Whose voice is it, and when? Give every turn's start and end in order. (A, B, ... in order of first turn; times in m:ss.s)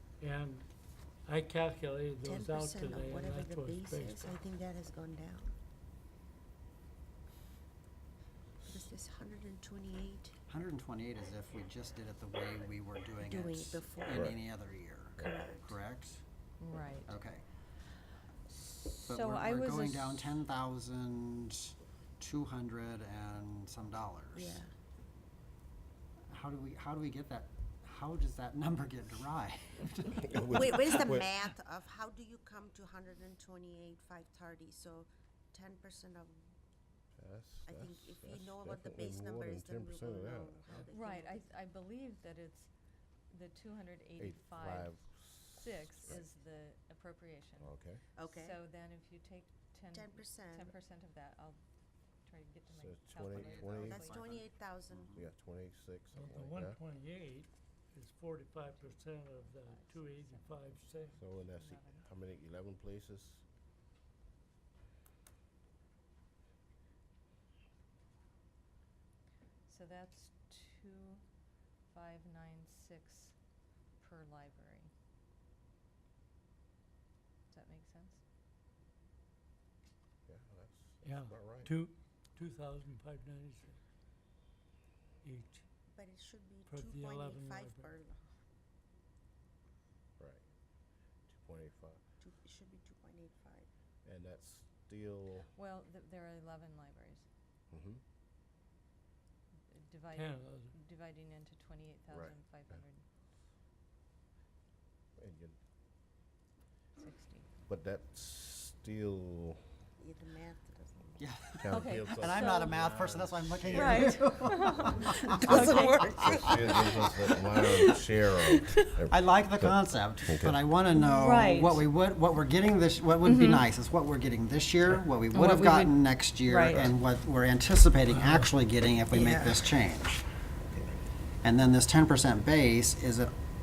0:00.2-0:00.7 A
0:01.2-0:04.4 A
0:02.2-0:05.5 B
0:08.6-0:10.3 B
0:10.5-0:16.2 C
0:13.2-0:14.2 B
0:15.2-0:15.7 B
0:16.6-0:17.1 D
0:17.0-0:17.4 C
0:18.8-0:20.2 D
0:19.0-0:24.6 C
0:24.3-0:24.7 B
0:26.3-0:31.0 C
0:30.2-0:31.2 E
0:30.5-0:36.4 B
0:37.2-0:40.7 E
0:37.6-0:41.4 B
0:40.9-0:47.7 D
0:44.2-0:46.2 E
0:47.6-0:48.0 E
0:48.2-0:48.6 B
0:48.3-0:54.2 D
0:49.9-0:50.7 B
0:52.7-0:54.1 E
0:53.3-0:55.2 C
0:53.8-0:55.2 B
0:55.2-0:56.8 E
0:56.1-1:01.2 A
0:58.7-1:02.0 D
1:01.1-1:03.4 E
1:09.6-1:11.3 D
1:11.9-1:13.4 D
1:14.0-1:14.9 D
1:17.5-1:18.2 D
1:20.2-1:21.7 E
1:21.0-1:23.8 A
1:25.2-1:25.6 A
1:25.9-1:28.3 B
1:26.7-1:27.9 A
1:30.2-1:30.4 E
1:31.3-1:32.0 E
1:32.2-1:33.7 B
1:34.0-1:35.5 E
1:35.5-1:37.2 D
1:37.7-1:38.0 E
1:39.7-1:43.0 D
1:40.2-1:40.7 A
1:45.2-1:45.6 E
1:47.0-1:47.5 D
1:47.7-1:49.6 E
1:50.0-1:51.3 B
1:51.2-1:56.0 C
1:51.6-1:54.6 E
1:51.7-1:52.7 D
1:53.7-1:56.2 D
1:55.3-1:57.6 B
1:55.5-2:00.6 E
1:59.1-2:10.2 C
2:00.9-2:01.8 D
2:03.2-2:03.6 D
2:05.3-2:06.9 D
2:09.1-2:09.6 B
2:10.6-2:10.9 E
2:11.4-2:13.3 C